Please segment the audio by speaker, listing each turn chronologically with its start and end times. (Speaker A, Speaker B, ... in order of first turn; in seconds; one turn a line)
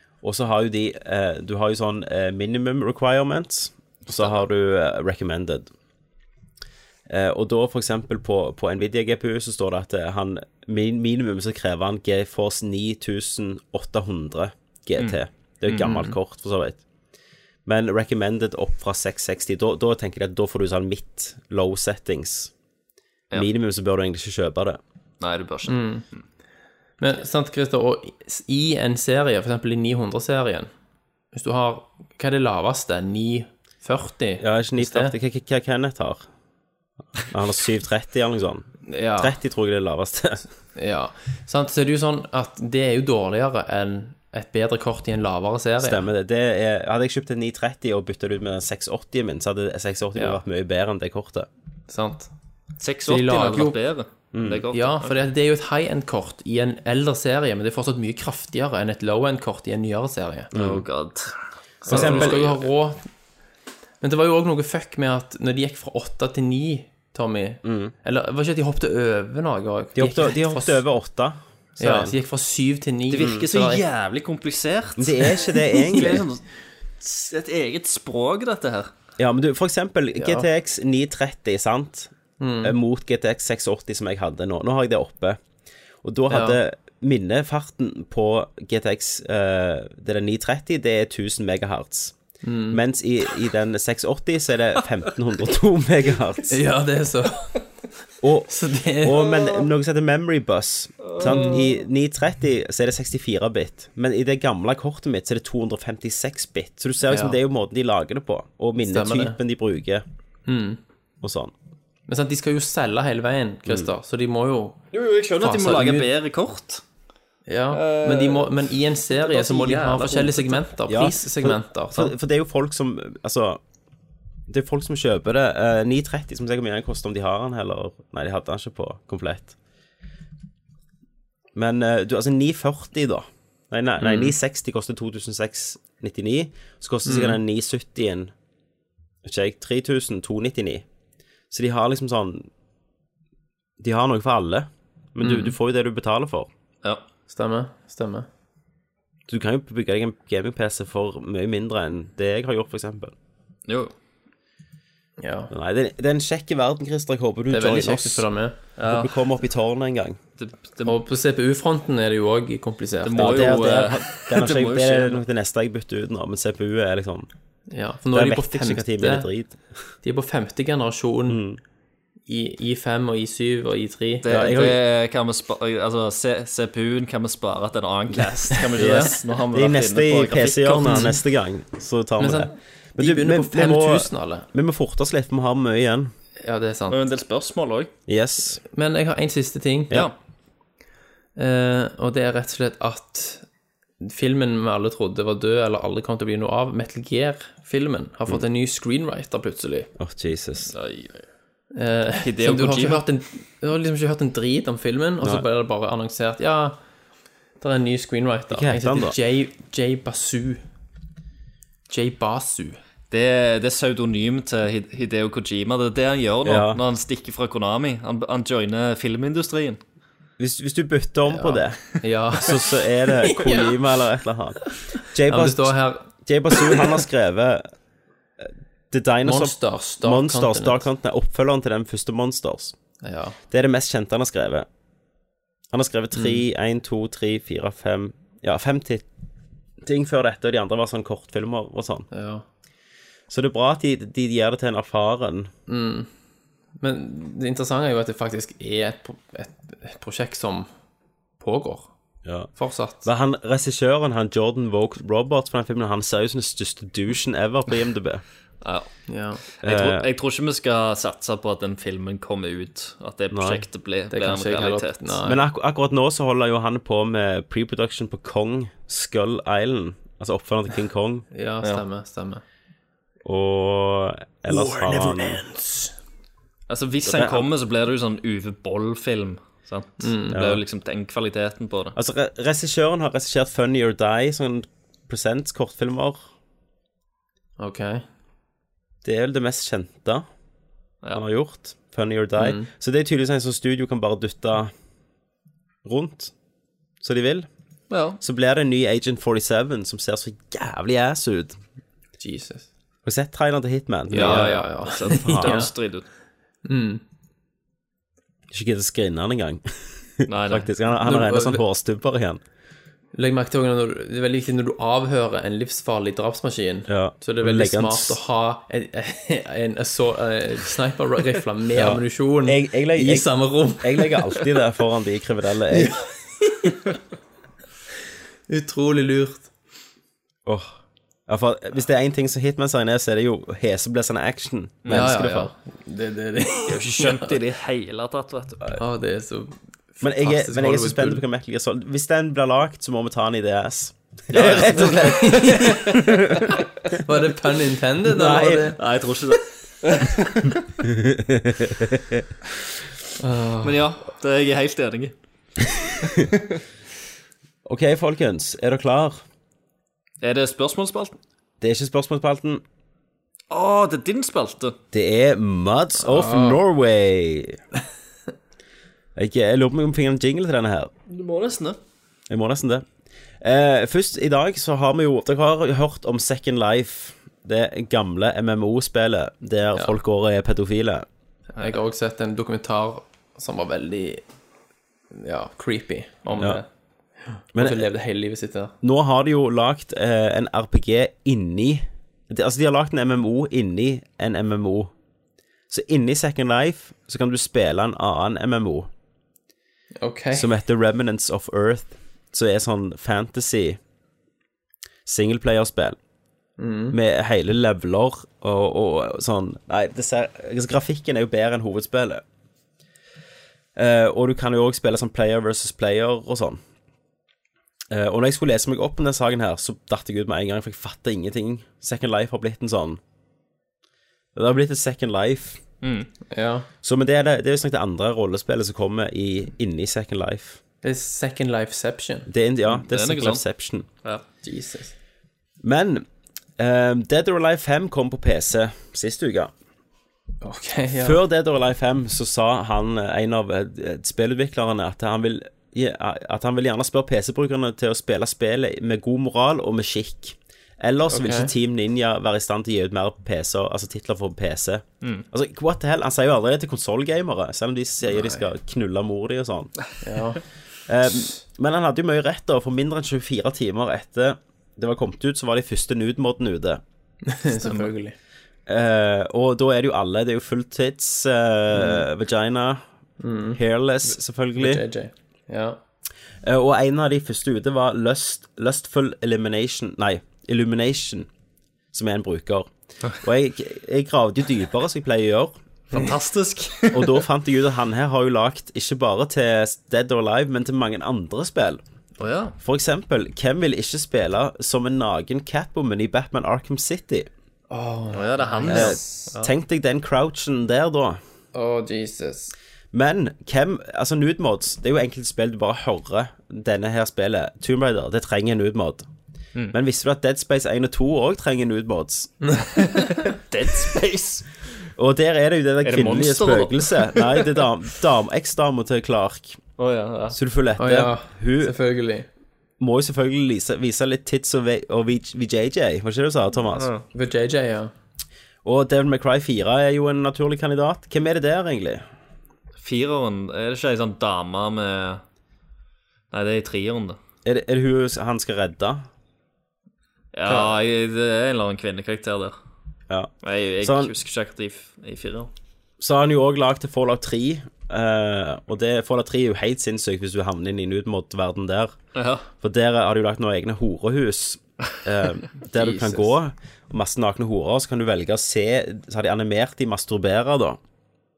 Speaker A: 0.2-5.7
Speaker A: 7.1-16.8
Speaker B: 15.7-16.2
Speaker A: 17.6-22.5
Speaker A: 23.3-24.8
Speaker C: 25.2-26.2
Speaker B: 25.6-26.0
Speaker B: 27.0-30.7
Speaker B: 31.3-35.1
Speaker A: 34.4-36.2
Speaker A: 37.3-40.4
Speaker B: 38.9-39.3
Speaker B: 40.8-46.0
Speaker A: 45.8-51.5
Speaker B: 51.9-52.3
Speaker C: 52.8-55.1
Speaker B: 53.0-53.8
Speaker A: 54.3-54.6
Speaker B: 54.7-60.5
Speaker A: 60.5-60.8
Speaker C: 60.5-62.7
Speaker B: 61.9-63.0
Speaker A: 61.9-62.4
Speaker B: 64.0-70.8
Speaker A: 67.6-67.9
Speaker A: 70.0-72.1
Speaker B: 71.8-73.8
Speaker C: 73.1-76.4
Speaker A: 75.0-76.2
Speaker C: 77.0-78.9
Speaker A: 79.2-85.4
Speaker B: 80.2-80.5
Speaker B: 82.4-82.8
Speaker A: 86.0-92.2
Speaker B: 86.3-86.6
Speaker B: 92.4-92.8
Speaker A: 92.7-96.6
Speaker B: 96.5-97.5
Speaker A: 98.2-110.0
Speaker B: 98.5-99.3
Speaker C: 101.0-101.6
Speaker B: 101.2-101.6
Speaker B: 107.1-107.4
Speaker B: 108.9-109.4
Speaker B: 110.5-110.8
Speaker A: 111.2-111.5
Speaker B: 112.1-114.8
Speaker C: 114.9-116.8
Speaker B: 115.4-116.1
Speaker B: 117.5-122.1
Speaker C: 117.7-120.7
Speaker A: 120.9-123.6
Speaker A: 124.5-129.5
Speaker A: 131.5-138.3
Speaker B: 134.0-134.3
Speaker B: 137.0-137.4
Speaker A: 139.2-140.8
Speaker A: 141.5-142.5
Speaker A: 143.8-146.5
Speaker B: 145.2-145.5
Speaker B: 147.3-148.3
Speaker A: 149.3-153.1
Speaker C: 153.7-153.9
Speaker B: 155.2-155.5
Speaker A: 155.5-158.3
Speaker B: 157.5-158.6
Speaker C: 158.8-159.2
Speaker A: 158.9-160.2
Speaker C: 160.4-161.0
Speaker B: 160.8-163.8
Speaker C: 163.0-165.2
Speaker A: 163.2-167.3
Speaker B: 167.7-169.3
Speaker A: 168.1-169.6
Speaker B: 170.0-171.4
Speaker A: 171.3-171.6
Speaker B: 172.3-174.3
Speaker C: 174.2-181.1
Speaker A: 174.3-174.8
Speaker B: 178.6-179.2
Speaker A: 178.8-186.1
Speaker B: 180.7-181.2
Speaker B: 182.2-184.5
Speaker B: 186.4-187.0
Speaker C: 186.9-187.9
Speaker A: 188.1-188.6
Speaker B: 188.6-190.0
Speaker B: 191.3-193.4
Speaker B: 194.0-199.9
Speaker A: 200.0-200.7
Speaker C: 200.7-201.2
Speaker B: 201.7-206.8
Speaker C: 202.2-203.0
Speaker B: 207.6-210.6
Speaker A: 208.5-209.2
Speaker B: 211.9-212.8
Speaker C: 213.1-219.8
Speaker A: 216.4-216.8
Speaker A: 220.4-227.7
Speaker B: 221.3-223.8
Speaker B: 225.3-227.0
Speaker A: 228.4-232.8
Speaker B: 229.2-230.8
Speaker B: 233.0-233.4
Speaker A: 233.5-234.7
Speaker A: 235.7-239.1
Speaker B: 236.1-236.4
Speaker A: 239.8-242.1
Speaker B: 242.1-242.4
Speaker A: 243.3-245.5
Speaker B: 245.7-246.1
Speaker B: 246.8-250.7
Speaker B: 251.4-251.9
Speaker A: 252.2-252.5
Speaker B: 252.6-253.1
Speaker A: 253.0-258.2
Speaker C: 258.6-258.9
Speaker B: 259.1-259.4
Speaker C: 259.5-265.2
Speaker A: 259.6-260.1
Speaker A: 263.3-263.6
Speaker B: 264.1-265.4
Speaker A: 265.2-271.2
Speaker B: 271.3-272.4
Speaker A: 273.2-275.4
Speaker B: 274.5-275.9
Speaker C: 276.7-281.9
Speaker A: 277.1-277.5
Speaker B: 280.0-280.4
Speaker A: 280.3-280.6
Speaker A: 281.9-286.2
Speaker B: 287.6-288.1
Speaker A: 289.0-290.2
Speaker A: 291.1-294.7
Speaker B: 292.4-292.7
Speaker A: 295.8-296.3
Speaker A: 297.0-297.5
Speaker C: 297.9-298.2
Speaker A: 298.2-301.6
Speaker B: 302.2-302.7
Speaker A: 303.0-304.6
Speaker B: 304.1-305.7
Speaker C: 304.1-306.0
Speaker A: 305.2-305.7
Speaker B: 306.6-307.0
Speaker A: 308.5-309.6
Speaker A: 310.2-312.4
Speaker C: 310.3-310.7
Speaker B: 310.9-311.6
Speaker B: 313.1-324.4
Speaker A: 316.9-318.2
Speaker A: 321.8-323.3
Speaker A: 323.8-326.0
Speaker B: 325.7-326.9
Speaker B: 328.5-329.5
Speaker A: 331.3-335.3
Speaker C: 334.8-335.5
Speaker B: 334.9-337.3
Speaker C: 336.7-338.7
Speaker B: 338.8-341.2
Speaker A: 340.0-346.5
Speaker C: 344.3-345.8
Speaker B: 344.3-346.0
Speaker B: 346.5-348.8
Speaker A: 348.0-348.8
Speaker C: 348.8-350.6
Speaker A: 350.8-352.2
Speaker B: 353.2-353.9
Speaker C: 353.6-355.1
Speaker C: 356.0-356.3
Speaker A: 357.6-359.2
Speaker C: 360.2-361.1
Speaker A: 361.6-362.6
Speaker C: 363.5-364.8
Speaker A: 364.9-367.6
Speaker B: 366.0-366.6
Speaker A: 369.1-370.9
Speaker C: 371.1-371.8
Speaker A: 372.3-372.8
Speaker A: 373.4-381.1
Speaker B: 381.5-384.2
Speaker B: 385.1-386.6
Speaker B: 387.2-388.7
Speaker A: 387.5-387.9
Speaker A: 388.8-394.9
Speaker A: 395.7-398.9
Speaker B: 400.0-400.5
Speaker A: 400.3-403.8
Speaker A: 405.1-406.0
Speaker B: 406.6-407.0
Speaker A: 406.9-412.2
Speaker A: 413.8-416.6
Speaker A: 417.9-423.0
Speaker A: 424.3-425.6
Speaker C: 425.8-426.1
Speaker B: 426.3-426.7
Speaker A: 426.8-430.6
Speaker B: 430.8-432.3
Speaker A: 432.3-433.9
Speaker C: 432.7-433.4
Speaker B: 434.4-434.9
Speaker A: 435.6-436.1
Speaker A: 436.6-439.5
Speaker B: 440.4-441.2
Speaker A: 441.0-459.7
Speaker B: 451.1-451.5
Speaker B: 460.0-460.4
Speaker A: 460.9-466.8
Speaker B: 467.2-468.1
Speaker A: 468.7-472.8
Speaker B: 471.7-472.0
Speaker B: 473.2-473.6
Speaker A: 473.5-474.8
Speaker B: 474.6-475.8
Speaker A: 476.4-481.3
Speaker A: 481.9-485.6
Speaker C: 485.9-487.2
Speaker A: 486.9-491.8
Speaker C: 492.2-492.6
Speaker A: 492.6-497.3
Speaker B: 497.7-499.3
Speaker C: 498.1-499.5
Speaker A: 498.6-501.2
Speaker B: 501.5-502.5
Speaker A: 502.9-509.1
Speaker A: 509.7-512.3
Speaker C: 512.7-514.5
Speaker A: 515.0-519.6
Speaker C: 515.8-517.6
Speaker C: 519.8-520.4
Speaker A: 520.3-521.8
Speaker B: 520.8-522.3
Speaker A: 522.8-526.9
Speaker C: 526.7-527.0
Speaker B: 527.1-527.9
Speaker A: 528.6-532.0
Speaker C: 532.8-535.2
Speaker C: 536.3-537.2
Speaker A: 537.4-539.1
Speaker C: 540.3-542.5
Speaker B: 540.5-540.7
Speaker A: 543.1-544.1
Speaker C: 543.4-545.5
Speaker A: 546.0-552.0
Speaker C: 552.1-552.5
Speaker A: 552.6-560.8
Speaker B: 555.7-556.3